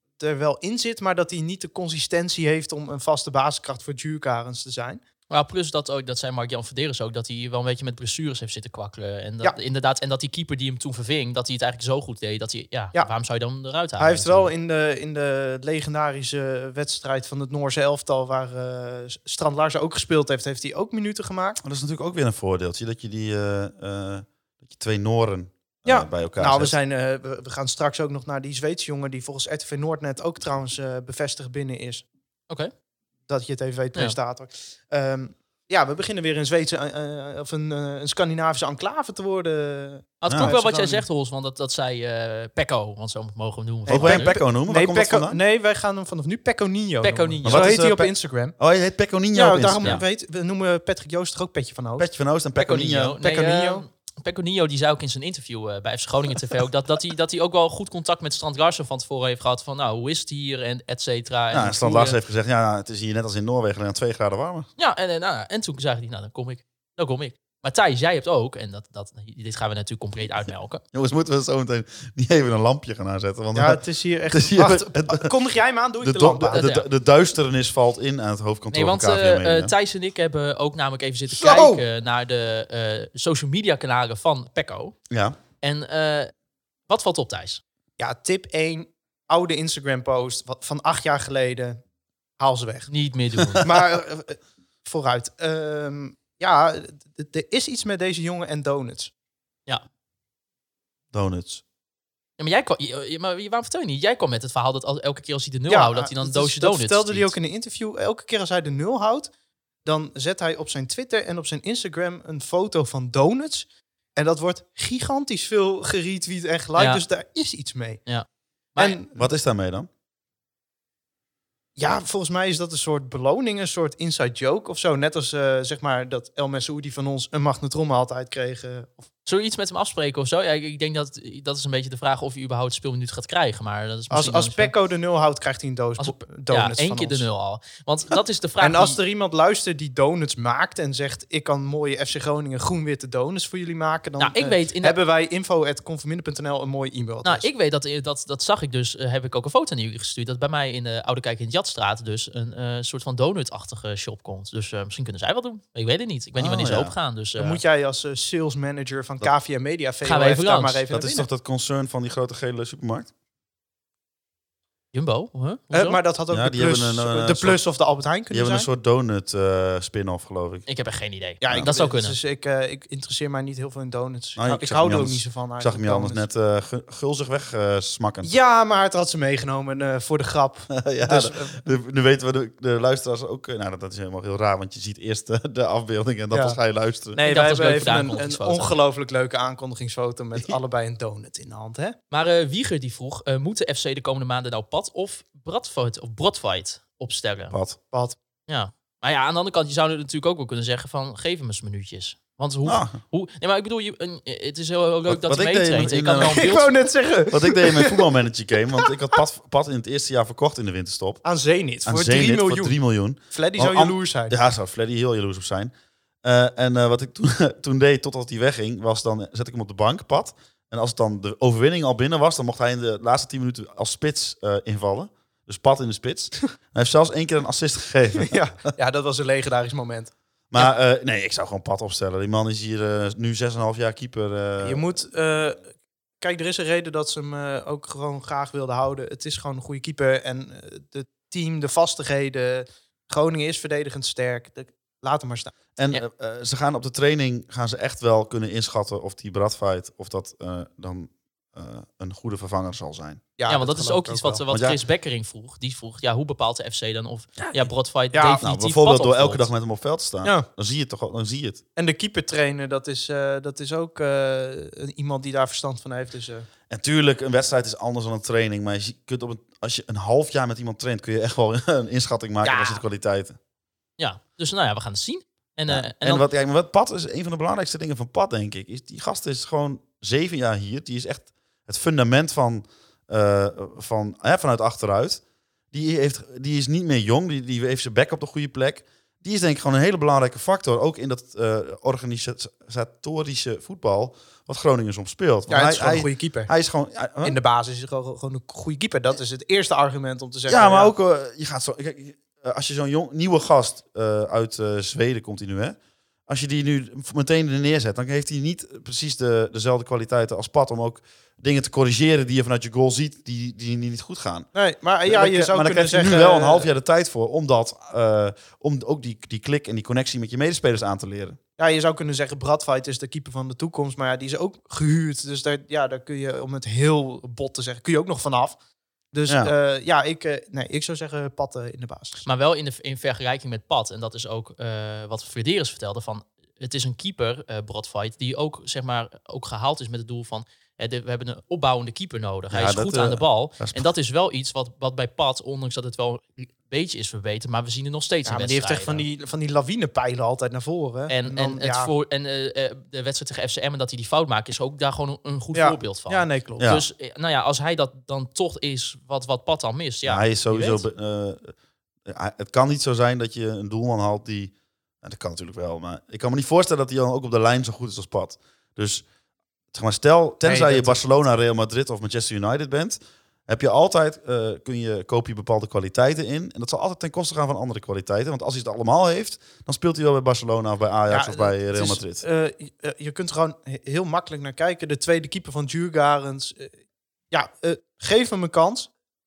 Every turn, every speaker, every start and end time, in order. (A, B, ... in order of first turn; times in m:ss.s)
0:00.2-0:05.0 A
0:05.3-0:14.5 B
0:14.0-0:21.6 A
0:21.6-0:26.7 C
0:25.8-0:32.0 A
0:33.3-0:41.0 A
0:40.2-0:44.4 B
0:40.2-0:40.5 C
0:43.9-0:48.6 A
0:43.9-0:45.4 C
0:47.0-0:47.8 B
0:47.4-0:50.0 C
0:49.3-0:52.1 A
0:52.0-0:53.2 C
0:52.6-1:02.2 B
0:53.2-0:53.8 A
1:01.5-1:04.7 C
1:04.8-1:10.8 B
1:10.9-1:15.3 C
1:13.5-1:16.6 A
1:16.0-1:19.7 C
1:16.5-1:16.8 B
1:18.7-1:25.0 B
1:21.3-1:21.8 A
1:25.1-1:25.4 C
1:25.6-1:26.3 B
1:26.9-1:27.6 B
1:28.0-1:31.8 A
1:32.4-1:32.9 A
1:32.9-1:33.7 B
1:33.6-1:39.1 A
1:41.1-1:41.6 C
1:42.4-1:47.3 B
1:45.7-1:49.3 A
1:49.8-1:58.0 A
1:56.8-1:57.0 B
1:58.1-1:59.0 B
1:58.8-1:59.2 A
1:59.1-1:59.9 C
2:01.8-2:09.1 A
2:09.2-2:14.7 B
2:14.1-2:17.3 A
2:16.0-2:19.0 B
2:18.6-2:27.5 A
2:24.2-2:25.0 B
2:27.2-2:37.6 B
2:36.4-2:36.9 C
2:37.4-2:41.3 A
2:40.0-2:40.8 B
2:40.9-2:43.1 C
2:44.9-2:46.0 B
2:45.7-2:48.7 A
2:46.3-2:47.6 C
2:48.3-2:50.6 C
2:50.7-2:52.2 B
2:51.4-2:56.2 A
2:54.4-2:58.3 C
2:58.2-3:01.6 A
3:00.7-3:07.2 C
3:06.3-3:06.6 A
3:07.1-3:12.0 A
3:07.2-3:08.7 B
3:12.1-3:17.5 B
3:17.5-3:17.8 C
3:17.9-3:18.2 A
3:18.5-3:26.7 B
3:22.6-3:23.0 C
3:25.1-3:26.5 C
3:26.2-3:28.1 A
3:27.3-3:31.2 C
3:31.2-3:32.7 A
3:31.8-3:35.7 C
3:33.3-3:34.3 A
3:36.2-3:48.4 C
3:48.2-3:50.7 A
3:50.5-3:54.8 C
3:54.6-4:05.5 A
4:05.8-4:13.2 C
4:13.4-4:14.4 A
4:13.5-4:19.5 B
4:14.5-4:14.8 C
4:18.1-4:18.4 A
4:18.4-4:21.6 C
4:21.8-4:26.5 A
4:26.7-4:33.4 C
4:34.0-4:36.2 B
4:35.7-4:57.4 C
4:55.5-4:56.5 A
4:57.2-5:00.9 A
5:00.5-5:05.8 C
5:06.3-5:14.5 C
5:14.5-5:16.7 A
5:15.0-5:21.4 C
5:21.6-5:28.6 A
5:29.1-5:32.2 A
5:29.3-5:29.5 C
5:32.2-5:49.0 B
5:42.5-5:43.9 C
5:48.2-5:51.9 A
5:51.1-6:00.8 B
5:55.5-5:56.7 A
5:56.6-5:56.8 C
6:00.0-6:01.5 C
6:02.0-6:09.0 C
6:09.7-6:22.2 C
6:10.4-6:11.0 A
6:21.1-6:26.8 A
6:27.3-6:28.9 A